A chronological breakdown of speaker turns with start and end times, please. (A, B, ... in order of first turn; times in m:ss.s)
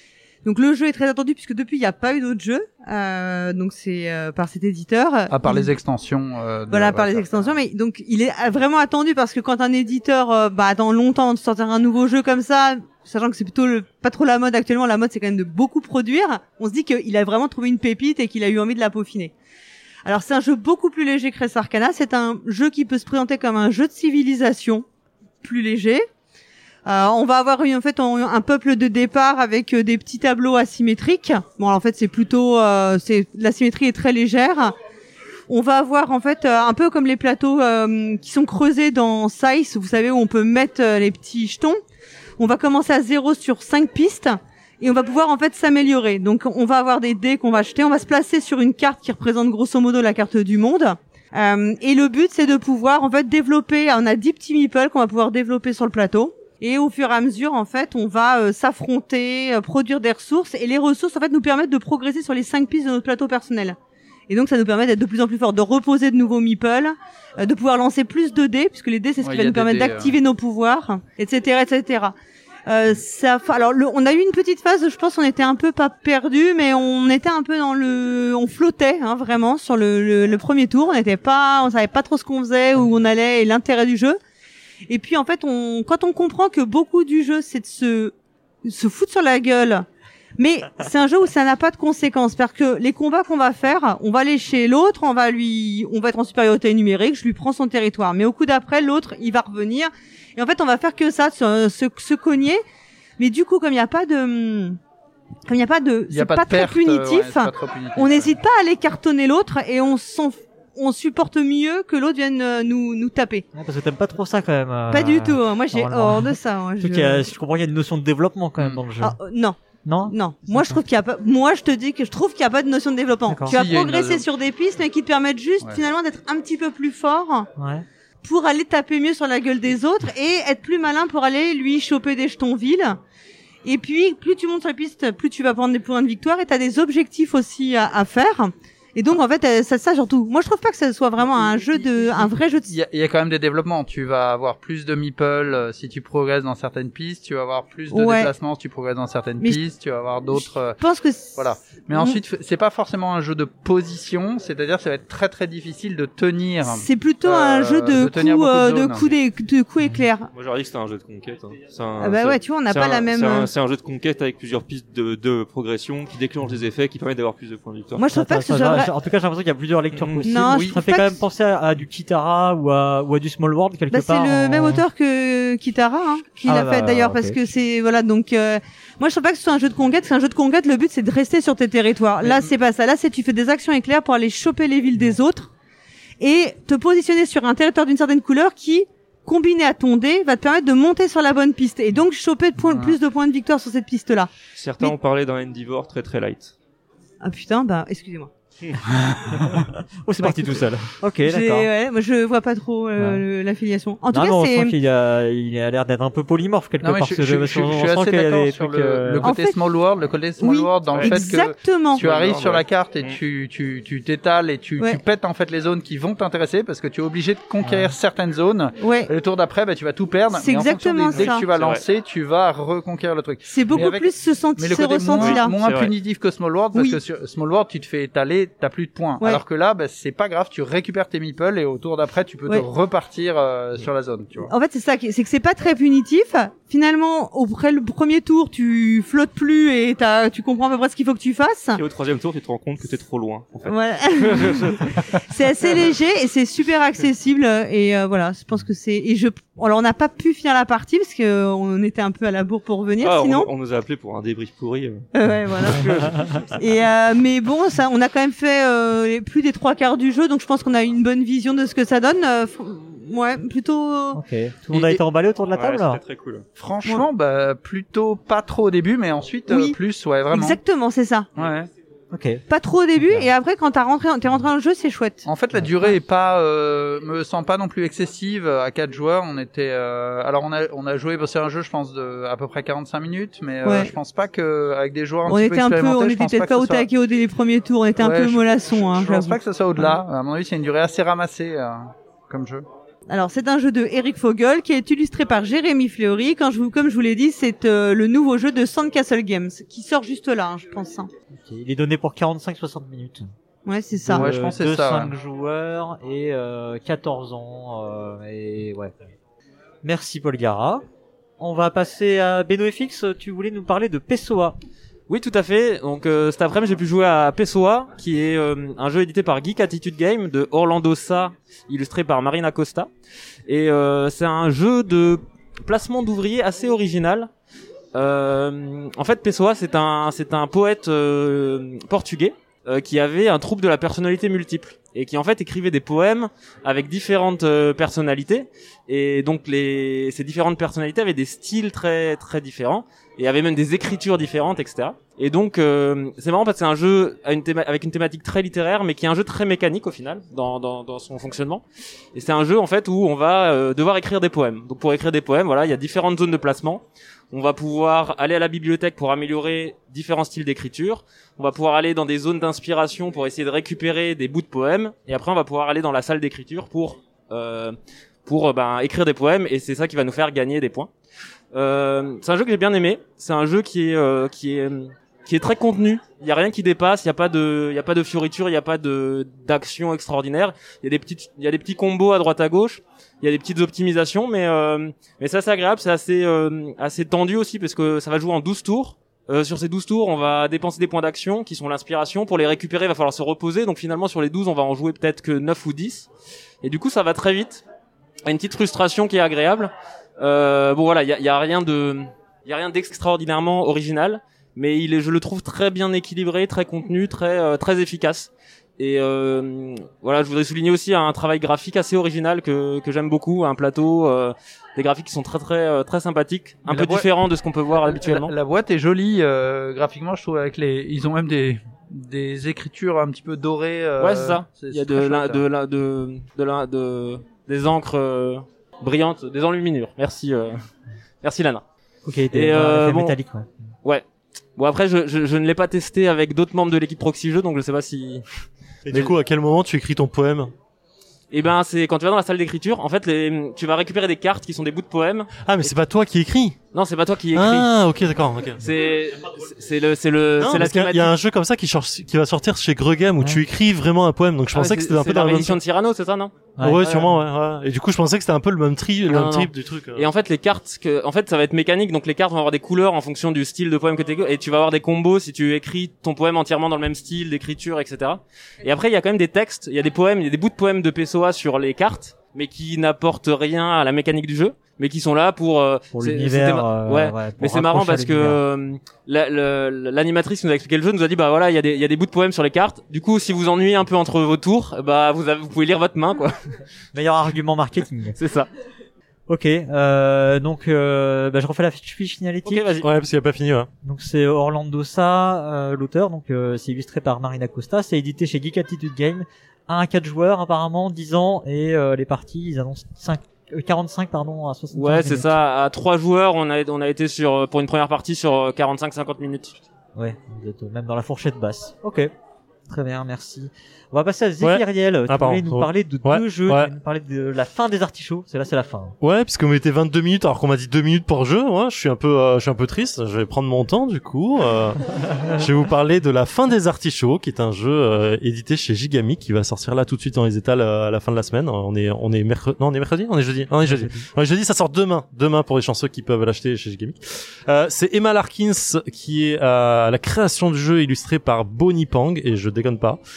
0:00.4-0:05.7 A
0:05.3-0:07.5 B
0:06.7-0:19.3 A
0:20.0-0:24.8 A
0:25.4-0:26.1 A
0:26.8-0:34.7 A
0:35.5-0:41.8 A
0:42.4-1:03.8 A
1:04.3-1:12.1 A
1:09.2-1:10.1 B
1:12.7-1:24.2 A
1:24.9-1:29.8 A
1:30.4-1:42.6 A
1:43.2-1:44.8 A
1:45.5-1:53.4 A
1:46.1-1:48.3 B
1:53.5-1:59.2 C
1:54.9-1:57.3 A
1:59.0-2:07.5 A
1:59.8-2:00.8 C
2:03.3-2:03.6 C
2:03.5-2:04.3 B
2:07.6-2:07.8 C
2:08.2-2:13.0 A
2:13.6-2:22.7 A
2:21.3-2:30.8 B
2:27.9-2:28.3 A
2:30.3-2:32.2 A
2:31.4-2:39.1 B
2:36.6-2:40.3 A
2:40.3-2:48.0 D
2:42.0-2:43.5 A
2:48.0-2:48.9 A
2:48.1-2:54.8 C
2:49.9-2:50.3 D
2:50.2-2:51.2 A
2:50.4-2:50.8 B
2:53.9-3:05.5 A
2:56.4-2:57.4 C
3:06.2-3:14.9 A
3:14.6-3:16.5 D
3:17.2-3:18.3 A
3:19.3-3:21.7 C
3:20.2-3:20.6 A
3:21.2-3:24.7 A
3:23.0-3:23.2 C
3:24.1-3:29.3 C
3:26.8-3:54.5 B
3:29.2-3:29.6 A
3:30.4-3:32.0 A
3:30.8-3:31.3 D
3:31.9-3:33.2 D
3:37.6-3:37.9 C
3:38.8-3:39.1 A
3:40.4-3:41.5 A
3:41.1-3:41.8 D
3:43.5-3:45.5 A
3:45.2-3:45.9 D
3:54.4-4:01.8 A
4:01.7-4:05.9 D
4:03.6-4:13.5 A
4:13.0-4:15.1 D
4:15.1-4:24.2 A
4:15.6-4:16.6 D
4:24.1-4:26.0 C
4:24.7-4:25.0 D
4:25.5-4:26.4 D
4:26.6-4:30.6 B
4:29.5-4:29.8 A
4:30.3-4:31.3 A
4:31.4-4:31.7 B
4:32.1-4:32.4 C
4:32.5-4:35.2 A
4:35.2-4:46.8 B
4:43.6-4:43.9 A
4:45.2-4:49.9 A
4:48.0-4:52.6 B
4:53.1-5:01.1 A
5:01.4-5:03.3 C
5:03.6-5:04.2 A
5:04.0-5:08.9 C
5:04.1-5:05.1 B
5:09.8-5:10.8 C
5:11.4-5:14.6 C
5:15.1-5:22.9 E
5:23.5-5:27.3 E
5:27.9-5:51.6 E
5:52.1-6:10.9 E
6:11.5-6:36.1 E
6:36.6-6:37.6 E
6:38.2-6:58.3 E
6:56.7-6:57.1 B
6:57.8-7:05.4 B
7:04.0-7:10.6 E
7:11.2-7:11.6 E
7:12.0-7:13.6 C
7:12.3-7:13.1 E
7:14.6-7:18.2 E
7:18.9-7:20.5 F
7:21.3-7:25.7 E
7:25.4-7:26.5 F
7:26.7-7:27.7 E
7:27.3-7:28.6 F
7:28.6-7:31.1 E
7:30.4-7:35.6 F
7:34.5-7:36.3 E
7:36.6-7:37.2 C
7:36.6-7:40.1 F
7:39.1-8:06.6 E
7:55.9-7:58.4 C
8:06.9-8:08.1 C
8:08.2-8:08.5 E
8:09.3-8:12.7 C
8:12.4-8:12.8 E
8:12.8-8:13.7 F
8:13.8-8:25.3 C
8:24.7-8:29.6 E
8:30.0-8:32.1 C
8:32.7-8:38.9 C
8:34.4-8:36.7 F
8:39.0-9:03.0 F
8:53.6-8:54.0 C